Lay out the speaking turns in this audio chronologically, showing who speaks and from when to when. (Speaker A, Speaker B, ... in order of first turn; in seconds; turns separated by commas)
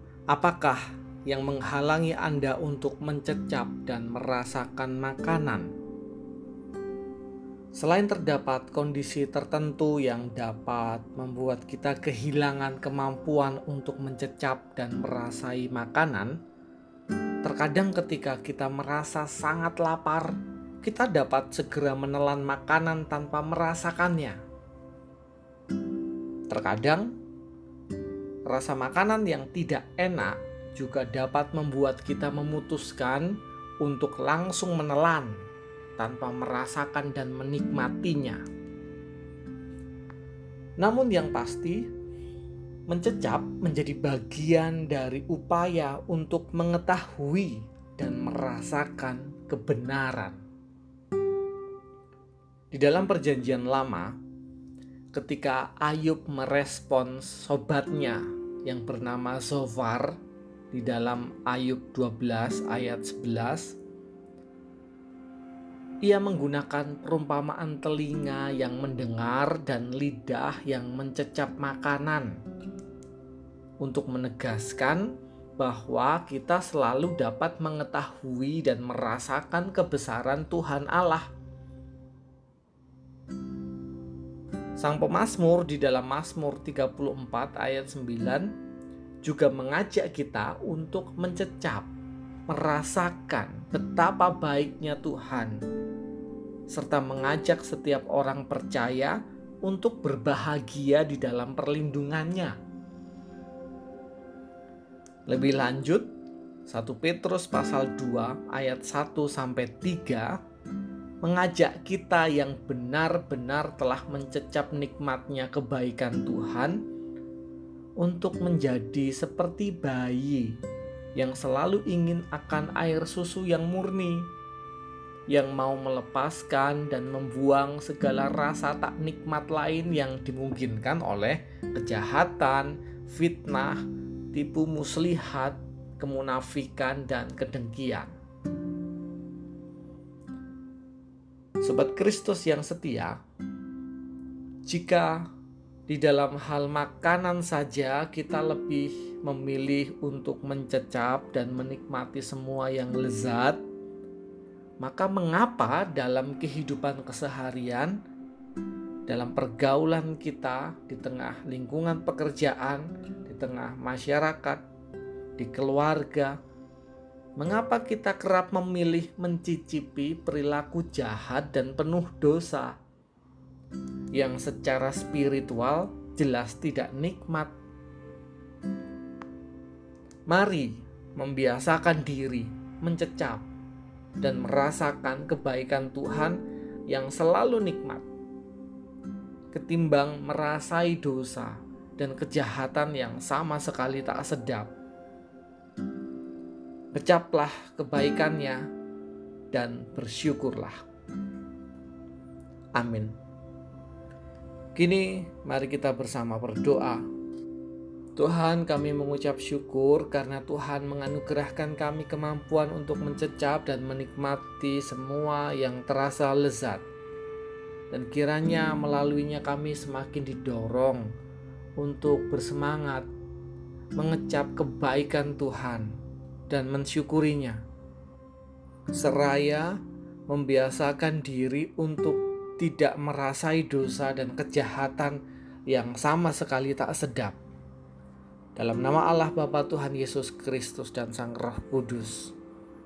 Speaker A: 0.3-5.7, Speaker A: 7.7-16.3, Speaker A: 17.4-24.4, Speaker A: 26.5-27.1, Speaker A: 28.5-35.4, Speaker A: 36.0-38.4, Speaker A: 40.8-41.9, Speaker A: 42.9-50.4, Speaker A: 52.7-54.2, Speaker A: 55.1-60.2, Speaker A: 60.7-63.8, Speaker A: 66.0-72.3, Speaker A: 73.8-81.2, Speaker A: 84.8-88.5, Speaker A: 89.2-91.9, Speaker A: 92.5-95.6, Speaker A: 96.7-102.5, Speaker A: 105.3-106.1, Speaker A: 106.7-110.3, Speaker A: 111.2-116.8, Speaker A: 118.0-120.5, Speaker A: 121.2-124.3, Speaker A: 125.3-138.1, Speaker A: 141.6-143.2, Speaker A: 144.6-145.2, Speaker A: 145.9-153.6, Speaker A: 154.8-157.9, Speaker A: 159.1-164.6, Speaker A: 165.4-166.4, Speaker A: 167.4-172.7, Speaker A: 174.1-177.5, Speaker A: 180.3-183.4, Speaker A: 184.2-188.1, Speaker A: 189.5-194.7, Speaker A: 196.9-198.6, Speaker A: 199.5-200.8, Speaker A: 202.8-203.1, Speaker A: 204.7-207.0, Speaker A: 208.2-216.8, Speaker A: 217.9-221.1, Speaker A: 221.8-223.1, Speaker A: 223.9-225.9, Speaker A: 226.5-227.6, Speaker A: 228.9-229.8, Speaker A: 230.3-237.4, Speaker A: 238.6-242.3